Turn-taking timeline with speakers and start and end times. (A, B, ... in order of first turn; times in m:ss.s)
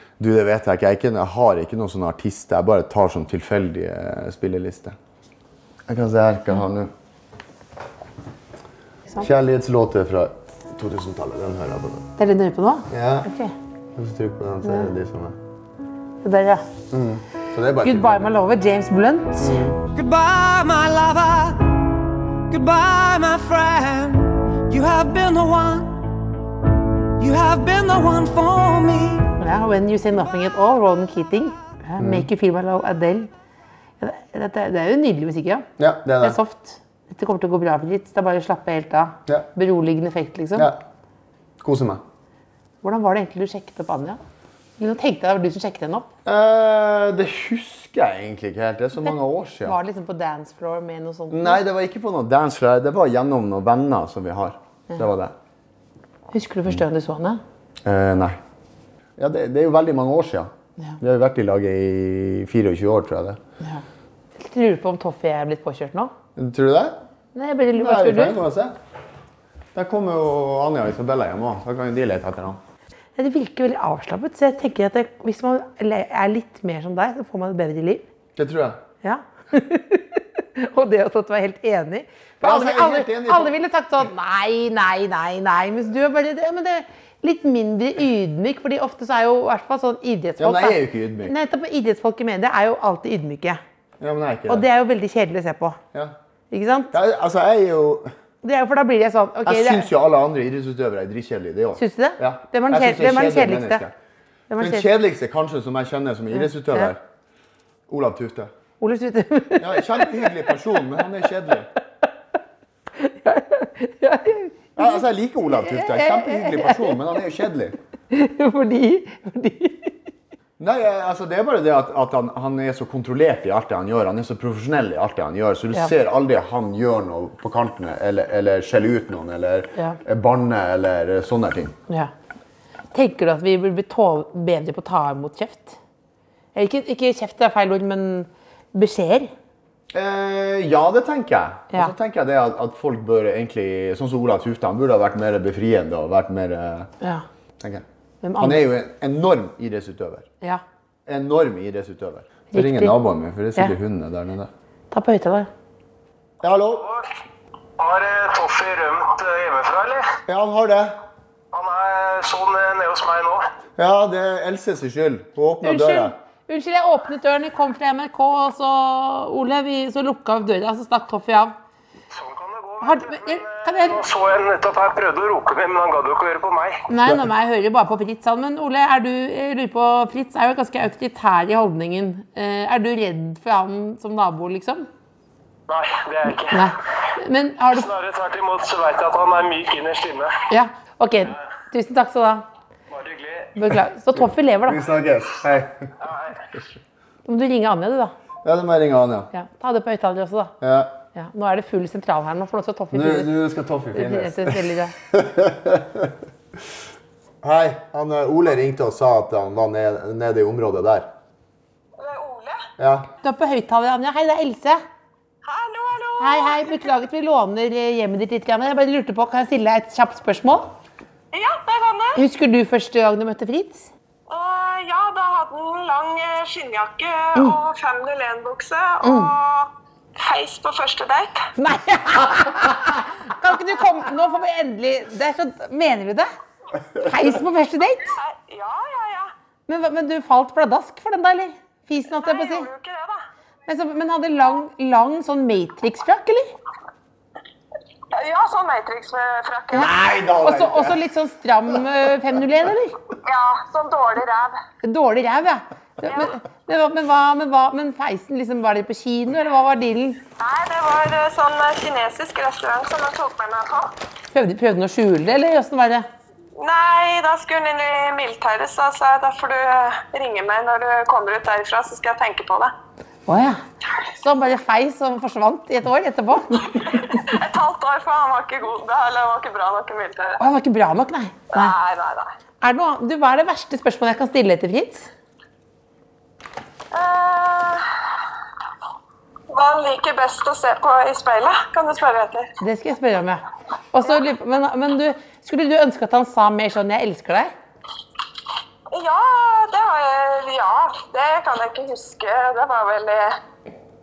0:00.2-0:05.0 A
0:05.9-0:06.9 A
0:09.2-0:12.1 A
0:12.2-0:13.5 B
0:12.9-0:13.3 A
0:14.0-0:15.4 A
0:16.2-0:16.6 B
0:16.9-0:18.3 A
0:17.8-0:19.7 B
0:19.4-0:19.8 A
0:19.9-0:21.7 C
0:22.5-0:26.1 C
0:27.2-0:29.3 C
0:29.4-0:33.3 B
0:32.0-0:32.3 A
0:34.0-0:35.7 B
0:35.8-0:36.4 A
0:36.2-0:40.7 B
0:41.6-0:42.0 A
0:42.8-0:44.2 B
0:44.8-0:46.1 B
0:46.2-0:49.8 A
0:49.0-0:51.6 B
0:51.3-0:55.3 A
0:56.3-0:57.4 B
0:57.8-0:58.4 A
0:59.2-1:03.4 A
1:04.4-1:06.1 B
1:06.4-1:07.0 A
1:07.3-1:08.4 B
1:07.7-1:08.7 A
1:09.7-1:12.6 A
1:13.2-1:18.0 B
1:18.4-1:18.8 A
1:19.0-1:33.6 B
1:22.4-1:23.5 A
1:30.4-1:31.3 A
1:34.0-1:34.6 A
1:34.5-1:35.8 B
1:36.5-1:36.9 B
1:36.9-1:38.1 A
1:38.4-1:39.9 B
1:39.4-1:43.9 A
1:41.8-1:43.8 B
1:44.5-1:44.9 B
1:44.6-1:47.0 A
1:46.4-1:46.9 B
1:47.9-1:48.5 A
1:48.8-1:50.5 B
1:49.6-1:51.7 A
1:53.0-1:55.0 B
1:54.8-1:57.8 A
1:55.5-1:57.1 B
1:58.1-1:59.9 B
2:00.6-2:11.8 A
2:12.9-2:15.8 B
2:16.5-2:19.3 B
2:19.9-2:26.9 A
2:27.6-2:27.8 A
2:28.2-2:28.6 B
2:28.4-2:30.3 A
2:31.0-2:34.5 A
2:32.5-2:33.0 B
2:34.9-2:35.5 B
2:36.4-2:36.8 A
2:36.8-2:37.0 D
2:37.8-2:40.0 D
2:40.3-2:41.0 A
2:41.5-2:43.4 D
2:43.8-2:46.2 A
2:45.6-2:51.5 B
2:52.1-2:56.8 D
2:52.8-2:54.0 B
2:56.9-3:04.9 B
3:05.7-3:06.7 D
3:06.5-3:07.9 B
3:07.7-3:10.3 D
3:10.5-3:12.4 B
3:12.9-3:13.5 D
3:13.5-3:14.8 B
3:14.6-3:15.9 A
3:16.0-3:16.3 D
3:17.2-3:18.1 B
3:18.4-3:19.3 A
3:19.3-3:20.5 B
3:20.6-3:20.9 A
3:21.1-3:23.3 B
3:22.9-3:26.1 A
3:23.9-3:24.9 B
3:27.4-3:31.1 A
3:32.0-3:32.6 E
3:32.8-3:33.1 A
3:33.2-3:34.8 B
3:35.4-3:36.9 E
3:36.2-3:40.7 B
3:41.3-3:42.2 E
3:42.2-3:43.9 B
3:44.3-3:51.4 E
3:49.0-3:49.3 B
3:51.6-3:56.3 B
3:57.0-3:58.1 B
3:58.0-3:59.3 E
3:59.7-4:02.7 B
4:02.1-4:03.2 E
4:03.7-4:06.5 B
4:08.1-4:09.9 E
4:09.7-4:11.0 A
4:09.7-4:13.0 B
4:13.2-4:14.6 E
4:14.8-4:20.2 B
4:16.1-4:16.3 E
4:20.4-4:23.9 E
4:24.3-4:26.1 B
4:26.6-4:32.7 E
4:33.3-4:33.6 B
4:34.2-4:36.8 B
4:36.9-4:40.4 E
4:40.4-4:41.7 B
4:41.5-4:42.3 E
4:42.6-4:45.1 B
4:46.9-4:47.8 E
4:49.5-4:52.5 E
4:52.6-4:53.4 B
4:53.9-4:57.5 B
4:58.9-5:03.4 E